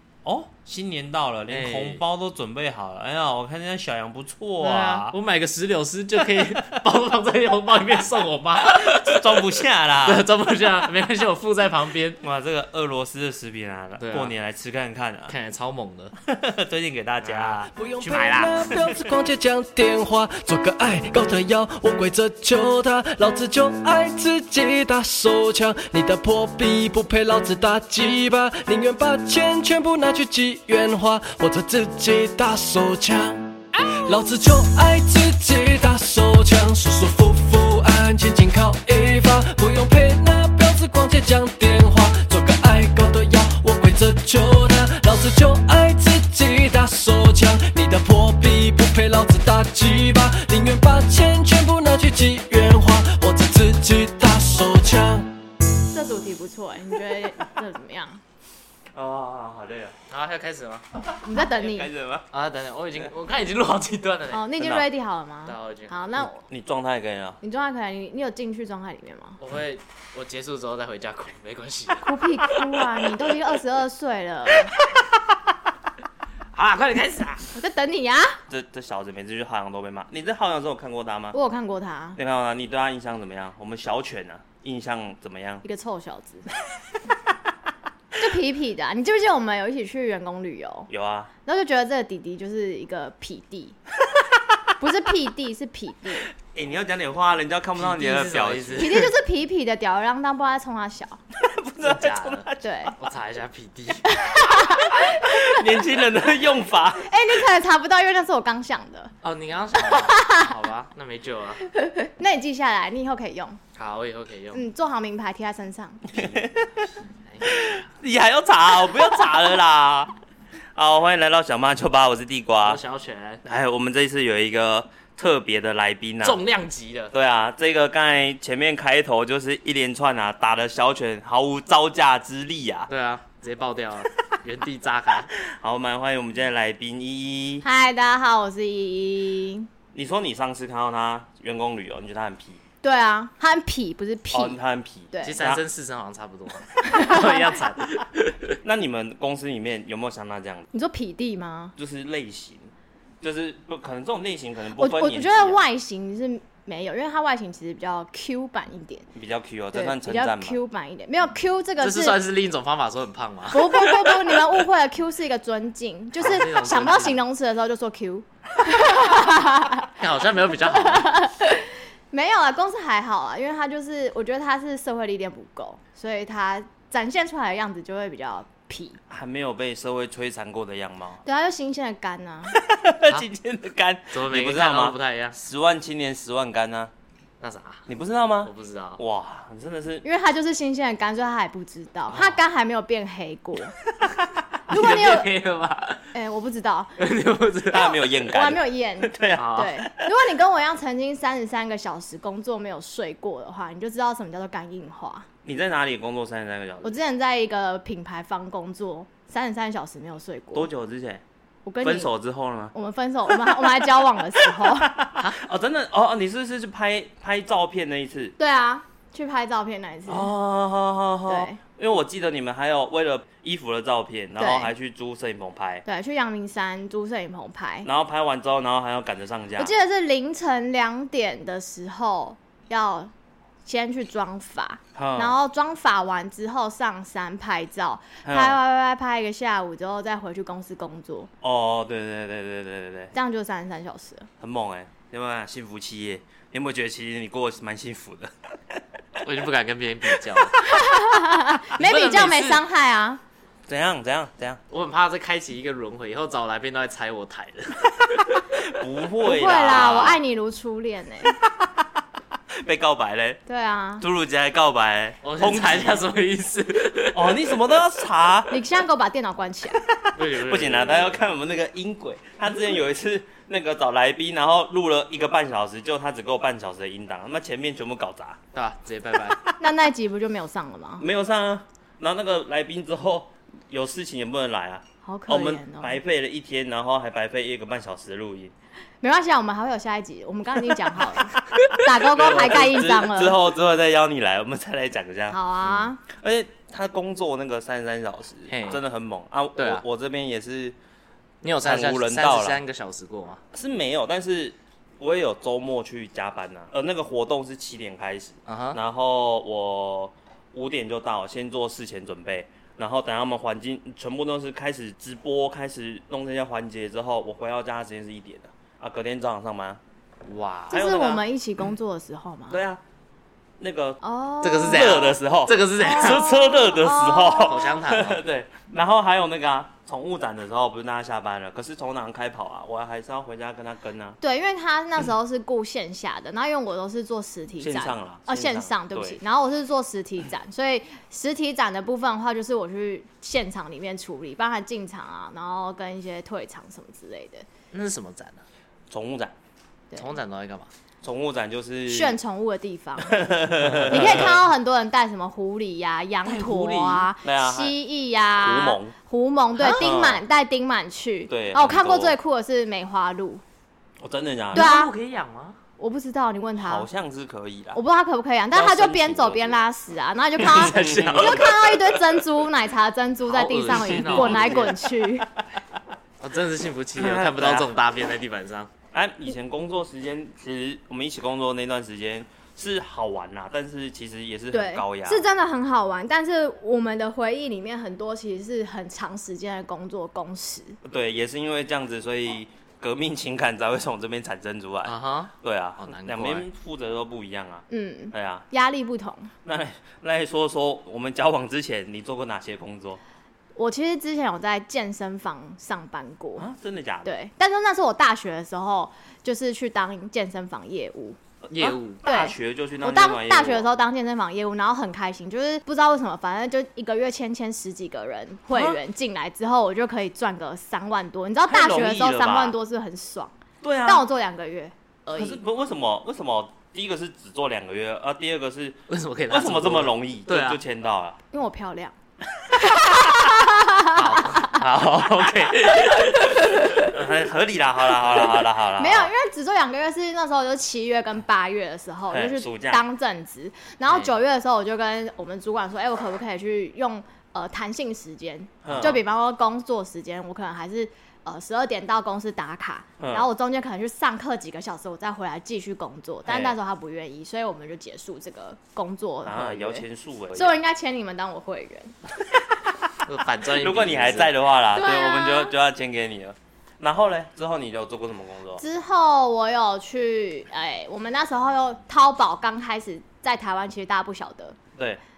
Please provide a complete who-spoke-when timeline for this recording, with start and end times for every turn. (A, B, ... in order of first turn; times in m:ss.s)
0:00.2-0:05.2 A
0:01.5-0:02.0 B
0:04.6-0:12.2 B
0:06.4-0:06.6 A
0:08.6-0:10.3 A
0:12.2-0:15.4 A
0:14.0-0:14.3 B
0:15.3-0:16.2 B
0:16.2-0:17.7 A
0:17.2-0:18.7 B
0:17.8-0:55.3 C
0:55.9-0:58.2 D
0:58.9-1:00.0 A
1:00.1-1:00.9 B
1:01.2-1:01.9 D
1:01.5-1:02.3 A
1:02.3-1:04.5 B
1:04.3-1:06.4 D
1:04.6-1:04.9 A
1:05.5-1:06.2 B
1:06.2-1:07.4 A
1:07.4-1:09.4 D
1:09.4-1:12.8 B
1:12.0-1:14.7 D
1:14.7-1:15.1 B
1:16.5-1:17.5 B
1:17.6-1:18.4 D
1:18.5-1:21.4 A
1:21.3-1:22.2 D
1:22.2-1:25.6 A
1:25.6-1:26.5 D
1:28.2-1:30.9 D
1:30.9-1:31.3 A
1:31.4-1:33.8 D
1:34.8-1:36.3 D
1:36.4-1:39.1 A
1:37.8-1:39.1 B
1:38.8-1:41.2 D
1:41.3-1:42.9 A
1:41.8-1:44.2 B
1:42.6-1:42.9 D
1:44.1-1:45.6 D
1:44.7-1:47.4 A
1:47.0-1:49.1 D
1:49.2-1:51.7 B
1:49.8-1:50.5 D
1:51.7-1:53.6 D
1:53.8-1:54.6 B
1:54.5-1:56.1 D
1:56.1-1:56.9 A
1:56.1-1:57.7 B
1:57.4-2:00.1 A
2:00.8-2:02.8 A
2:02.6-2:03.4 B
2:03.4-2:06.4 A
2:06.2-2:07.1 B
2:07.1-2:12.9 A
2:12.9-2:15.3 B
2:15.4-2:17.6 A
2:17.6-2:19.7 D
2:19.9-2:22.6 A
2:22.8-2:24.6 D
2:24.3-2:25.6 A
2:25.1-2:25.4 D
2:25.2-2:28.6 B
2:26.8-2:27.6 D
2:28.6-2:30.7 A
2:30.7-2:31.8 D
2:31.8-2:35.6 A
2:34.8-2:39.1 D
2:39.1-2:40.6 A
2:39.7-2:42.2 D
2:41.8-2:44.2 B
2:43.5-2:49.9 D
2:46.2-2:47.2 B
2:49.8-2:51.1 B
2:50.7-2:59.0 D
2:59.1-3:01.2 A
3:01.2-3:02.6 D
3:02.5-3:06.9 A
3:04.1-3:05.4 B
3:07.4-3:07.9 B
3:07.9-3:10.0 A
3:08.4-3:09.0 B
3:10.0-3:13.8 D
3:12.1-3:12.4 B
3:14.7-3:15.3 D
3:14.7-3:16.1 B
3:16.1-3:17.0 D
3:17.0-3:18.0 B
3:17.7-3:20.3 A
3:18.3-3:25.3 D
3:19.4-3:19.8 B
3:25.4-3:27.0 A
3:26.8-3:30.7 D
3:30.5-3:31.2 A
3:31.6-3:32.1 D
3:31.8-3:32.7 A
3:32.7-3:35.0 D
3:33.3-3:38.4 A
3:38.4-3:40.3 D
3:40.1-3:45.8 A
3:41.3-3:41.6 D
3:44.4-3:44.7 D
3:45.8-3:47.9 D
3:47.8-3:49.8 A
3:49.6-3:53.1 D
3:53.6-4:01.3 D
3:55.0-3:55.4 A
3:58.2-3:58.6 A
4:01.4-4:03.1 A
4:03.1-4:04.3 D
4:04.4-4:08.8 A
4:09.2-4:10.6 B
4:10.6-4:13.2 D
4:11.8-4:12.6 B
4:13.7-4:14.6 A
4:14.7-4:18.5 B
4:18.5-4:20.2 A
4:19.2-4:21.4 D
4:21.4-4:21.7 A
4:22.6-4:23.4 A
4:23.5-4:24.0 D
4:24.0-4:26.0 A
4:25.2-4:27.4 B
4:27.1-4:28.6 A
4:28.5-4:29.8 D
4:29.9-4:38.4 A
4:30.2-4:31.2 B
4:38.5-4:39.4 B
4:39.1-4:39.6 A
4:39.6-4:41.0 D
4:41.0-4:48.5 A
4:45.0-4:46.0 D
4:49.0-4:53.4 D
4:52.0-4:55.4 A
4:55.3-4:56.0 D
4:56.1-5:00.8 A
4:58.5-4:58.8 B
4:59.6-4:59.8 B
5:01.4-5:03.4 B
5:01.6-5:02.6 A
5:03.5-5:19.8 A
5:08.5-5:08.8 B
5:20.3-5:20.8 B
5:20.7-5:22.6 D
5:20.7-5:21.2 A
5:22.5-5:22.8 A
5:23.6-5:24.0 A
5:24.0-5:25.1 D
5:24.4-5:26.3 B
5:24.6-5:34.2 A
5:25.8-5:27.8 D
5:27.4-5:28.2 B
5:34.2-5:47.4 D
5:37.6-5:39.2 A
5:47.7-5:48.4 B
5:48.9-5:49.4 A
5:50.0-5:50.7 B
5:51.0-5:52.2 A
5:51.9-5:53.2 D
5:53.0-5:54.5 A
5:53.6-5:54.3 B
5:53.9-6:03.4 D
5:56.2-5:57.8 A
5:58.4-5:59.0 A
5:59.6-5:59.9 B
5:59.8-6:00.2 A
6:01.3-6:02.2 A
6:04.0-6:04.7 A
6:04.5-6:04.9 D
6:04.5-6:05.6 B
6:05.8-6:06.9 D
6:06.6-6:07.8 A
6:07.7-6:15.3 D
6:08.5-6:09.6 A
6:10.4-6:11.7 B
6:10.4-6:11.8 A
6:13.3-6:14.8 B
6:13.8-6:14.9 A
6:16.2-6:18.7 B
6:17.0-6:17.8 A
6:18.9-6:25.3 A
6:24.5-6:30.8 D
6:30.8-6:38.5 A
6:34.8-6:36.5 B
6:37.7-6:39.3 D
6:39.4-6:43.0 A
6:43.6-6:46.5 D
6:46.4-6:47.1 A
6:47.0-6:51.2 D
6:51.4-6:53.7 A
6:51.5-6:52.0 B
6:52.0-7:03.3 D
6:58.5-6:58.8 A
7:01.5-7:02.6 A
7:03.6-7:04.0 A
7:03.9-7:05.4 D
7:05.2-7:11.2 A
7:08.9-7:10.6 B
7:11.3-7:12.0 D
7:12.3-7:13.2 A
7:12.6-7:14.6 D
7:13.8-7:16.9 B
7:14.5-7:19.1 A
7:16.4-7:16.7 D
7:18.8-7:42.0 D
7:22.1-7:22.8 A
7:28.6-7:29.0 A
7:33.0-7:33.3 A
7:36.3-7:36.6 A
7:39.2-7:40.6 A
7:43.0-7:44.4 B
7:43.5-7:48.6 A
7:44.7-7:45.5 D
7:48.6-7:54.6 D